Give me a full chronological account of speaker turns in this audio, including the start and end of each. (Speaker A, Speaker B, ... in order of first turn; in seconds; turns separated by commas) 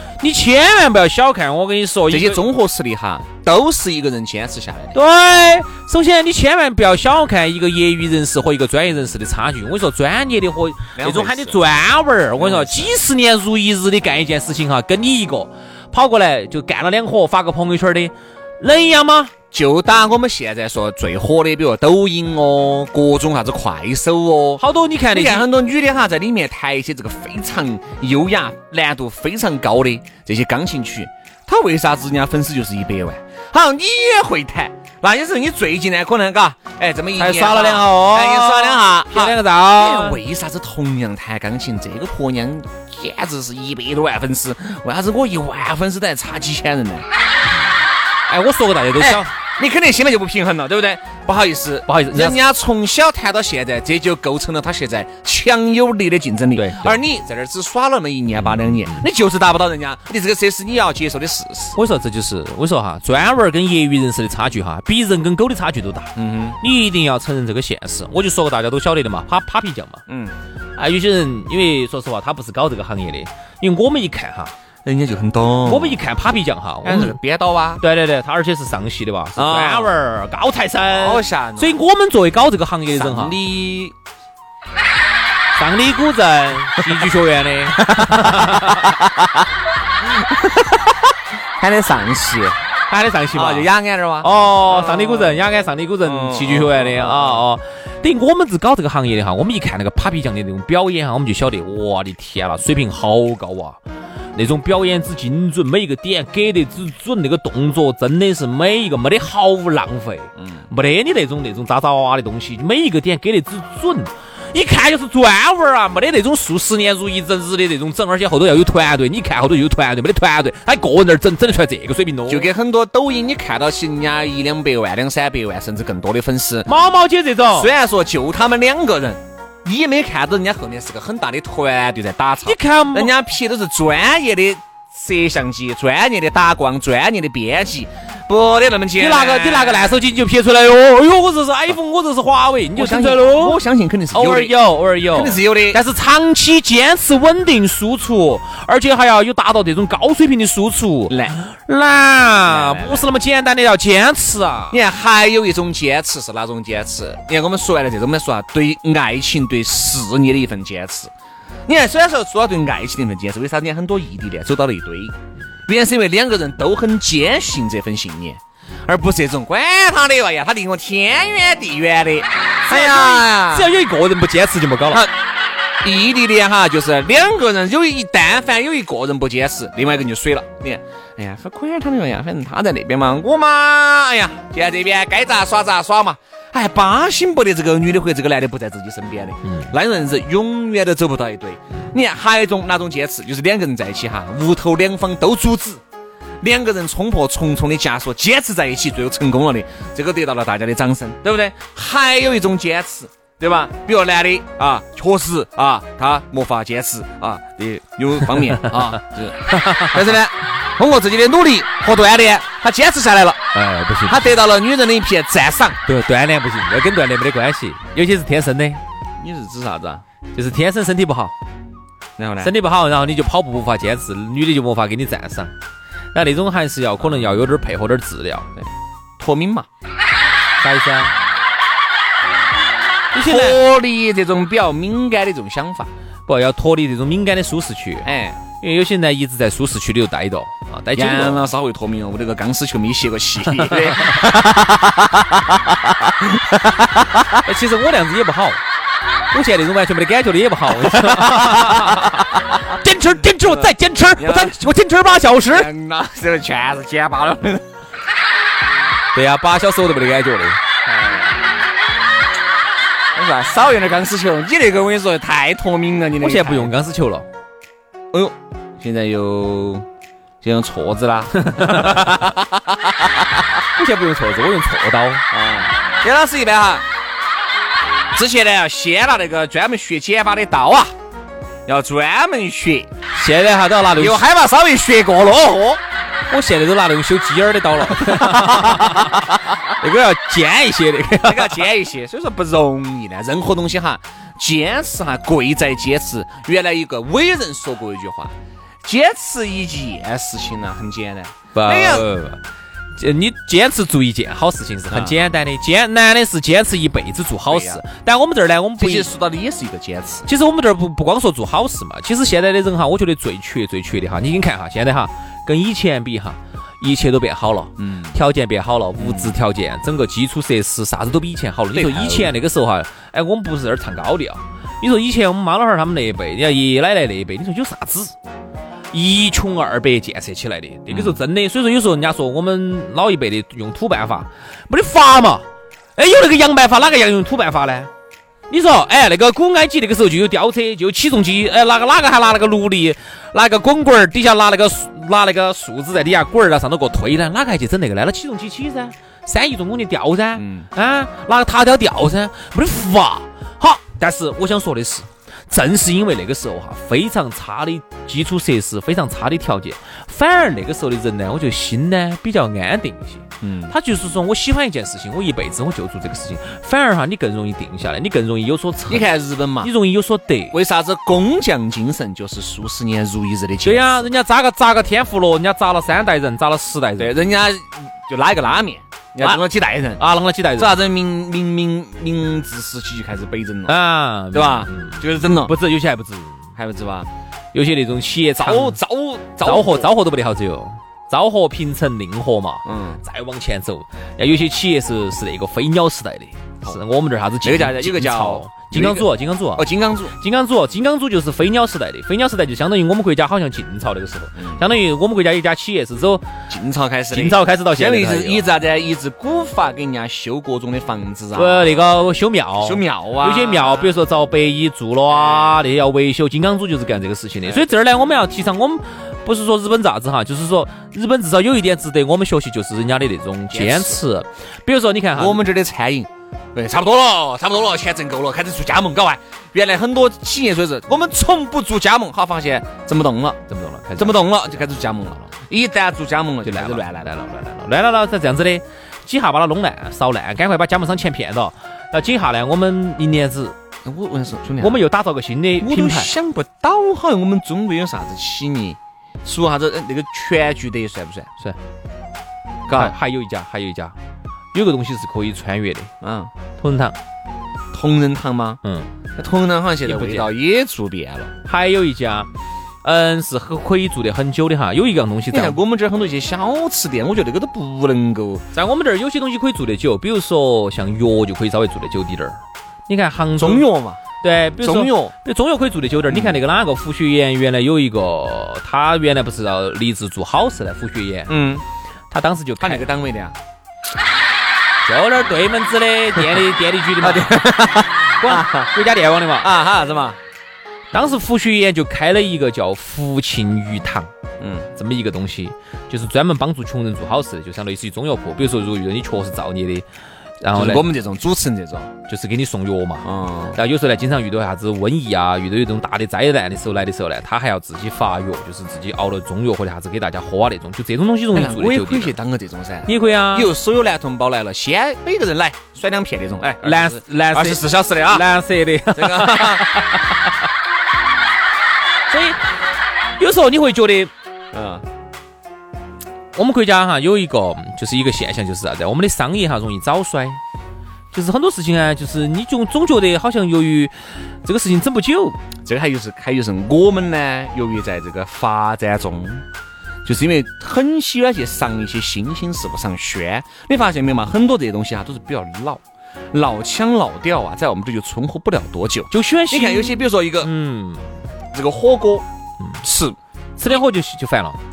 Speaker A: 0.2-2.4, Speaker B: 2.1-5.0, Speaker A: 4.9-19.3, Speaker B: 10.9-11.6, Speaker B: 12.4-12.9, Speaker B: 19.5-47.1, Speaker A: 24.6-25.5, Speaker A: 37.2-40.2, Speaker A: 48.3-49.3, Speaker B: 49.0-61.8, Speaker A: 51.9-52.4, Speaker A: 56.5-57.0, Speaker A: 58.5-59.0, Speaker A: 61.8-70.0, Speaker B: 66.2-66.6, Speaker B: 70.1-70.4, Speaker A: 70.8-74.5, Speaker B: 74.8-76.0, Speaker A: 75.6-77.2, Speaker B: 76.8-77.8, Speaker A: 77.8-83.4, Speaker B: 79.3-79.9, Speaker B: 80.9-81.8, Speaker B: 82.9-83.9, Speaker A: 85.5-88.9, Speaker B: 87.8-89.4, Speaker B: 90.0-91.0, Speaker B: 91.6-92.6, Speaker A: 92.9-93.7, Speaker B: 93.3-95.4, Speaker A: 94.2-103.8, Speaker B: 96.0-97.4, Speaker A: 104.3-122.5, Speaker B: 110.4-110.6, Speaker B: 122.3-126.7, Speaker A: 126.7-127.7, Speaker B: 127.5-140.0, Speaker A: 132.4-133.1, Speaker A: 139.0-143.6, Speaker B: 142.7-144.6, Speaker A: 144.1-154.8, Speaker B: 145.1-145.8, Speaker B: 151.1-151.4, Speaker B: 152.4-153.1, Speaker B: 154.7-161.1, Speaker B: 161.7-165.1, Speaker B: 165.7-173.7, Speaker A: 172.7-175.1, Speaker B: 175.8-195.8, Speaker A: 189.4-189.7, Speaker B: 196.4-213.4, Speaker A: 209.5-209.9, Speaker A: 213.5-214.3, Speaker B: 214.1-215.8, Speaker A: 215.8-218.8, Speaker B: 219.2-220.0, Speaker A: 220.3-221.3, Speaker B: 222.2-222.5, Speaker A: 222.4-225.5, Speaker A: 226.1-228.5, Speaker B: 227.0-227.3, Speaker B: 228.6-229.7, Speaker A: 230.6-231.1, Speaker A: 233.1-233.6, Speaker B: 233.2-235.9, Speaker A: 236.3-241.5, Speaker B: 238.0-238.4, Speaker B: 240.9-245.4, Speaker A: 243.8-244.3, Speaker B: 246.2-247.2, Speaker A: 247.3-248.6, Speaker A: 249.3-255.7, Speaker B: 250.8-252.2, Speaker B: 253.4-254.6, Speaker B: 255.5-257.7, Speaker A: 259.1-260.6, Speaker B: 260.8-261.4, Speaker B: 263.1-266.7, Speaker A: 266.2-267.3, Speaker B: 268.1-269.9, Speaker B: 270.4-273.4, Speaker A: 271.5-272.1, Speaker A: 273.8-275.2, Speaker B: 275.3-276.8, Speaker B: 278.1-280.9, Speaker B: 281.6-282.9, Speaker A: 283.1-284.2, Speaker B: 283.9-285.8, Speaker A: 286.3-291.6, Speaker B: 287.9-289.4, Speaker B: 291.2-302.1, Speaker A: 301.5-302.4, Speaker A: 302.9-309.1, Speaker B: 304.9-305.2, Speaker B: 307.5-307.8, Speaker B: 308.8-310.3, Speaker A: 310.2-328.1, Speaker B: 317.8-318.2, Speaker B: 319.0-319.4, Speaker B: 321.7-322.3, Speaker A: 328.9-335.4, Speaker B: 330.9-331.2, Speaker A: 336.0-337.9, Speaker A: 338.5-370.6, Speaker B: 350.4-350.7, Speaker B: 363.4-363.7, Speaker B: 368.9-369.7, Speaker B: 370.5-374.1, Speaker A: 373.6-377.1, Speaker B: 377.0-380.0, Speaker A: 380.0-380.8, Speaker B: 380.6-383.8, Speaker A: 383.7-386.5, Speaker B: 384.3-385.5, Speaker B: 386.6-387.1, Speaker A: 387.5-388.8, Speaker B: 388.4-389.9, Speaker A: 389.4-406.2, Speaker B: 392.6-393.0, Speaker B: 397.4-400.1, Speaker B: 406.5-411.7, Speaker A: 407.1-408.4, Speaker A: 411.3-425.4, Speaker B: 412.6-413.9, Speaker B: 415.1-415.6, Speaker B: 423.5-424.0, Speaker B: 425.1-433.4, Speaker A: 433.5-434.6, Speaker B: 434.0-437.1, Speaker A: 436.4-443.5, Speaker B: 443.8-444.8, Speaker A: 444.6-446.1, Speaker B: 445.6-451.3, Speaker B: 452.7-452.9, Speaker A: 452.7-453.9, Speaker A: 454.5-455.9, Speaker B: 456.0-456.3, Speaker A: 456.6-457.0, Speaker B: 457.7-458.6, Speaker A: 458.6-458.9, Speaker B: 459.1-461.3, Speaker A: 459.8-460.3, Speaker A: 461.4-462.3, Speaker A: 462.8-465.6, Speaker B: 465.3-468.4, Speaker A: 468.5-473.6, Speaker B: 473.4-474.0, Speaker A: 474.2-481.4, Speaker B: 474.6-475.1, Speaker B: 476.1-476.4, Speaker B: 481.3-481.6, Speaker A: 482.1-482.9, Speaker B: 482.6-483.4, Speaker A: 484.8-487.5, Speaker B: 487.0-488.7, Speaker A: 488.2-489.5, Speaker B: 489.4-490.2, Speaker A: 490.9-494.1, Speaker B: 494.4-494.7, Speaker A: 494.7-499.9, Speaker A: 500.4-500.9, Speaker B: 500.5-501.9, Speaker A: 502.1-512.1, Speaker B: 503.0-503.6, Speaker B: 511.3-518.2, Speaker A: 512.9-513.5, Speaker A: 516.6-520.2, Speaker B: 518.9-519.7, Speaker A: 522.1-522.4, Speaker A: 523.2-524.1, Speaker B: 524.5-524.8, Speaker A: 526.3-530.4, Speaker A: 531.1-535.4, Speaker B: 535.6-539.5, Speaker B: 540.0-550.5, Speaker A: 549.1-551.1, Speaker B: 551.5-552.2, Speaker B: 552.8-553.2, Speaker A: 553.6-554.6